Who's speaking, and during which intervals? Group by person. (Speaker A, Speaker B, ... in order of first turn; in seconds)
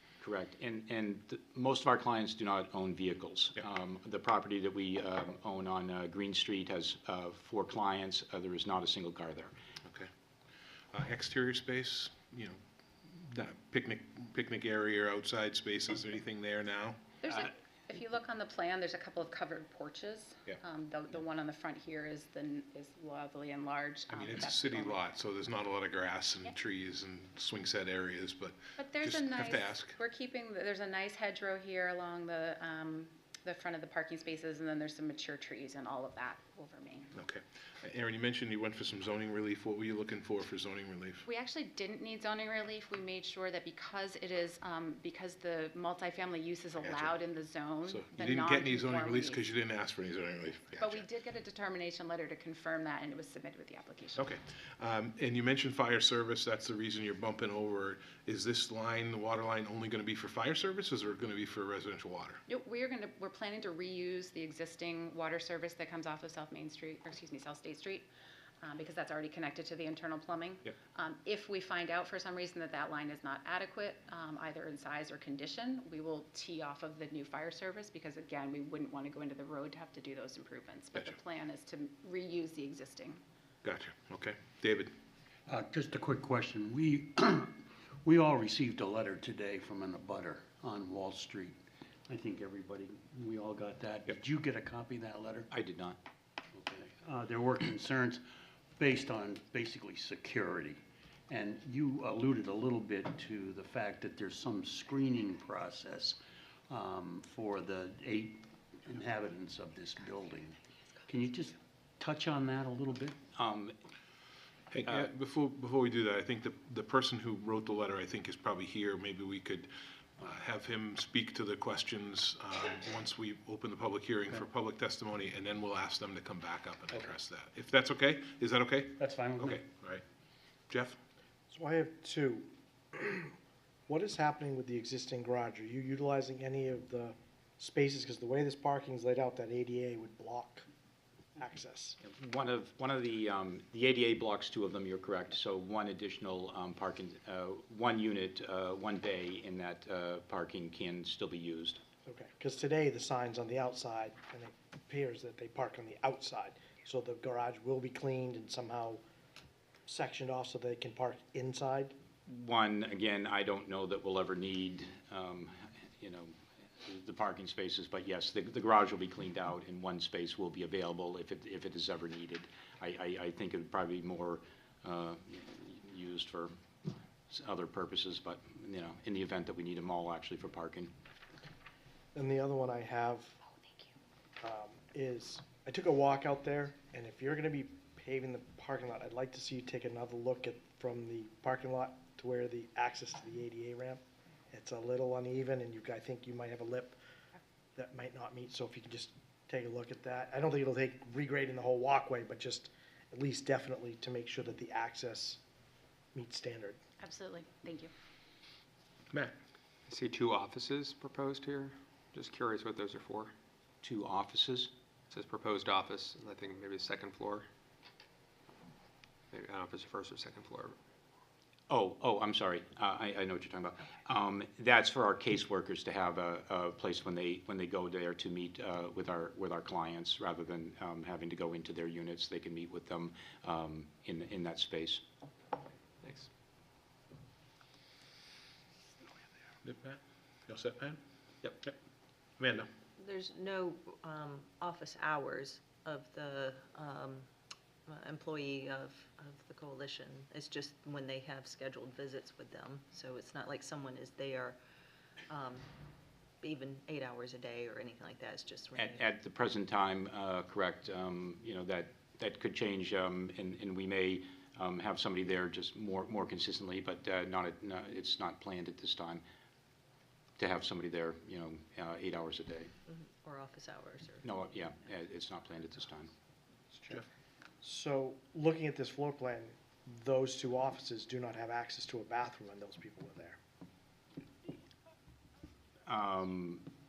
Speaker A: 0.2-9.5, 95.5-96.0, 113.3-113.8, 142.0-151.8, 162.2-176.5, 177.3-180.9, 213.8-214.7, 221.7-235.0, 258.7-269.2, 270.4-272.7, 274.2-276.1, 285.9-286.6
Speaker B: 9.8-10.1, 10.9-17.0, 24.1-29.9, 37.1-41.2, 46.8-47.1, 47.9-51.0, 54.2-62.4, 83.6-84.9, 114.7-130.0, 130.7-131.0, 239.6-241.0, 242.4-242.7
Speaker C: 17.2-25.0, 28.8-37.1, 41.2-49.4, 50.8-54.3, 62.5-68.1, 68.6-83.2, 207.0-207.9
Speaker D: 85.5-95.5, 96.5-98.2, 98.8-113.2, 129.0-129.6
Speaker E: 131.5-133.3, 133.9-140.7, 141.4-142.0, 152.0-159.0, 159.9-161.9, 182.1-183.4, 184.4-197.0, 197.8-205.4, 206.1-206.8, 276.7-277.1, 277.6-283.4
Speaker F: 209.9-213.3, 215.1-217.5, 219.3-220.8
Speaker G: 243.0-247.3, 247.9-254.6, 255.3-255.7, 256.4-259.0, 272.9-274.2